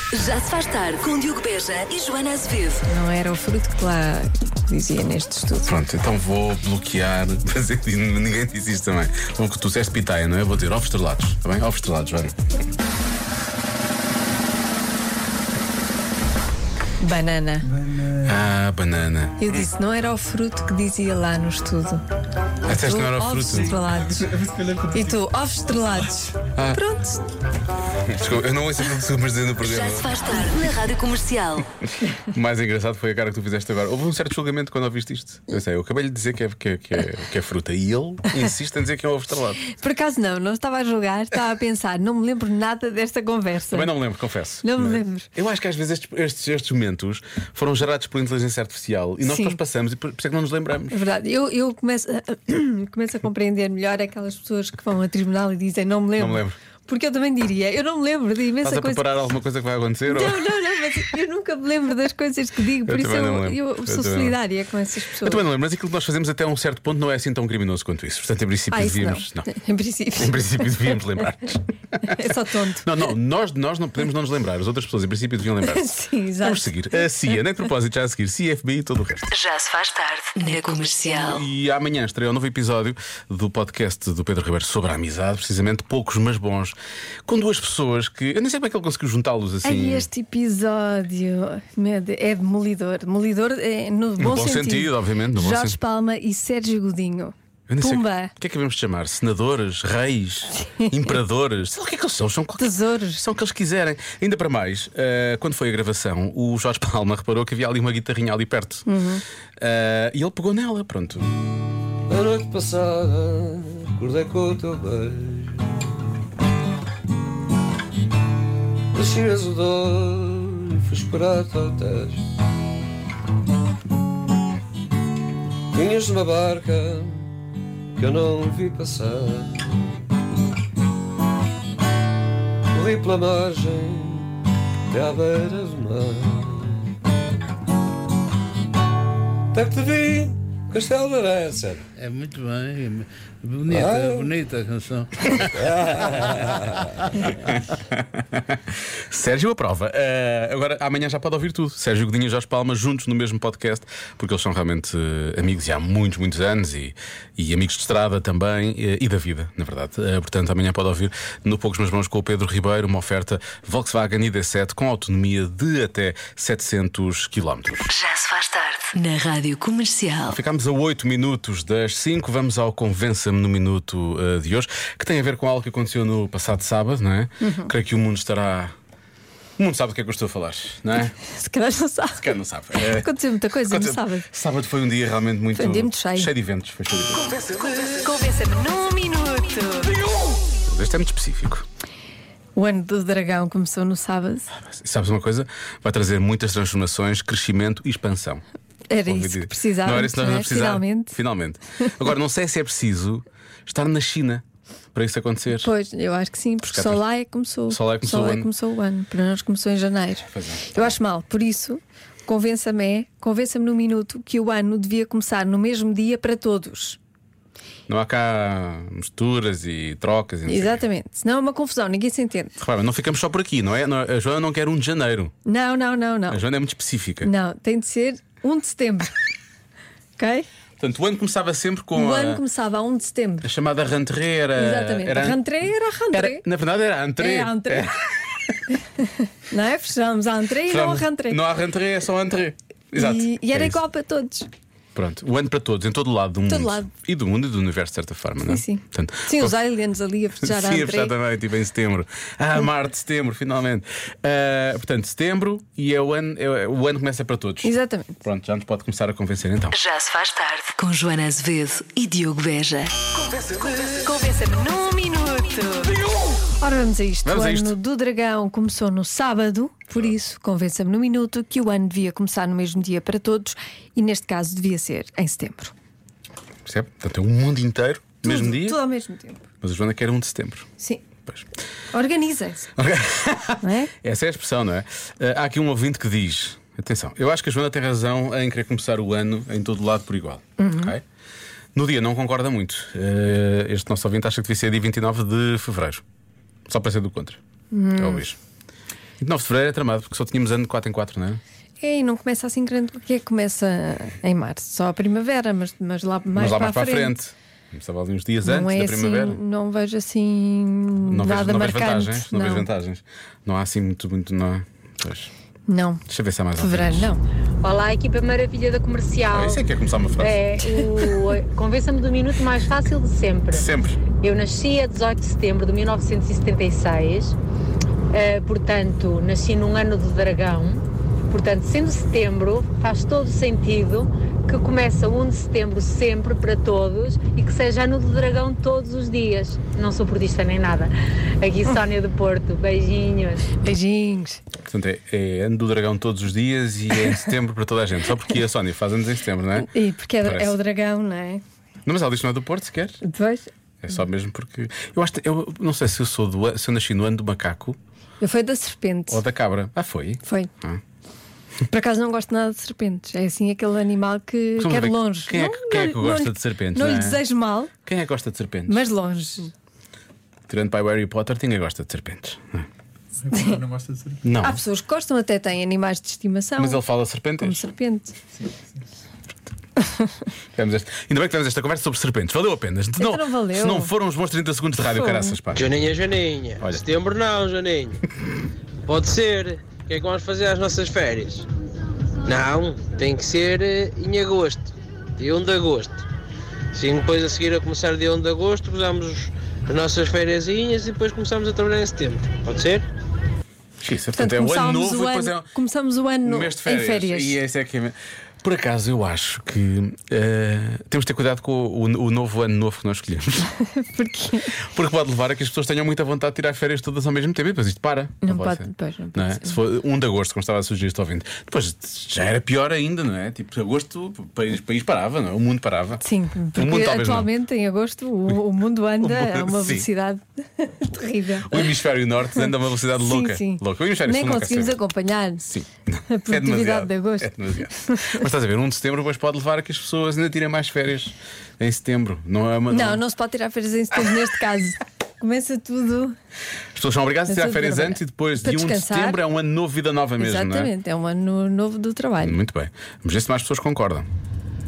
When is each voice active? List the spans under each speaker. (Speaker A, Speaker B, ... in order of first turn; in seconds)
Speaker A: 0.1-2.8, 29.6-31.6, 79.3-81.4, 167.9-170.4, 259.7-262.9
Speaker B: 2.9-5.7, 17.0-17.8, 19.4-22.0, 22.7-27.2, 39.7-44.0, 44.6-45.3, 49.2-49.6, 50.9-59.1, 60.1-65.5, 68.7-71.2, 72.1-72.9, 75.6-77.3, 89.6-98.3, 102.5-103.2, 108.8-109.2, 177.4-177.7, 181.2-184.3, 185.5-186.3, 187.8-190.0, 192.6-194.5, 198.9-201.2, 205.5-217.0, 220.4-222.5, 225.4-226.4, 227.2-229.1, 230.2-230.5, 231.9-233.5, 234.6-236.4, 237.2-237.9, 239.0-241.4, 242.9-244.5, 246.5-246.9, 248.4-251.1, 257.6-258.2, 263.9-266.0, 266.6-275.7, 278.2-279.4, 281.9-282.7, 283.6-283.9, 290.6-290.9, 297.7-298.2, 301.8-307.2, 308.4-312.7, 315.7-316.0, 316.6-317.2, 320.6-321.1, 343.5-344.4, 349.6-351.4, 353.0-353.5, 358.2-359.2, 360.2-360.5, 361.7-367.7, 368.7-369.5, 373.3-373.6, 374.4-376.8, 377.4-378.1, 383.0-383.9, 384.9-385.4, 404.1-407.4, 413.7-414.5, 418.2-419.6, 426.0-431.8, 432.3-435.5, 436.1-438.2, 442.7-446.1, 447.3-449.2, 450.2-452.4
Speaker C: 5.7-12.3, 18.2-19.6, 22.6-23.8, 26.5-26.8, 28.1-30.6, 32.3-39.6, 43.7-51.0, 56.2-56.6, 58.6-60.6, 62.9-64.4, 65.2-69.5, 70.1-79.3, 81.0-90.1, 94.2-95.8, 97.7-108.8, 109.6-111.3, 147.5-148.6, 149.1-167.9, 170.3-178.7, 179.6-181.2, 182.1-187.3, 190.7-191.7, 194.5-198.4, 199.0-204.4, 204.9-205.7, 206.7-207.0, 207.7-208.5, 210.3-210.9, 217.9-220.8, 222.6-225.3, 226.3-227.3, 230.8-232.4, 233.4-235.4, 236.1-238.4, 240.7-243.8, 244.9-249.6, 250.4-259.8, 267.2-267.7, 276.6-278.8, 279.6-280.7, 282.8-291.0, 291.8-296.0, 296.7-297.4, 297.9-298.4, 299.2-301.4, 306.3-309.4, 311.1-315.3, 316.1-317.1, 319.3-320.4, 323.5-324.0, 344.6-350.6, 351.9-353.0, 353.8-357.8, 359.1-360.8, 364.6-367.2, 367.8-368.8, 370.5-372.7, 374.2-374.6, 376.6-377.6, 380.6-385.7, 386.6-386.9, 403.8-405.5, 406.2-413.5, 414.6-426.0, 426.5-427.3, 429.0-429.9, 431.4-434.8, 435.4-443.0, 446.8-450.7, 452.2-454.1
Speaker D: 24.3-24.9, 373.2-374.2, 378.4-378.6
Speaker E: 112.1-115.9, 118.9-122.2, 125.7-127.3, 128.0-129.9, 132.7-134.3, 134.9-136.9, 139.5-141.9, 143.7-144.3, 145.6-146.0
Speaker F: 141.9-146.4
Speaker G: 317.6-319.6, 320.2-323.6, 324.2-327.3, 328.1-343.5
Speaker H: 385.6-388.0, 388.9-391.4, 392.2-394.7, 395.2-396.0, 396.7-402.8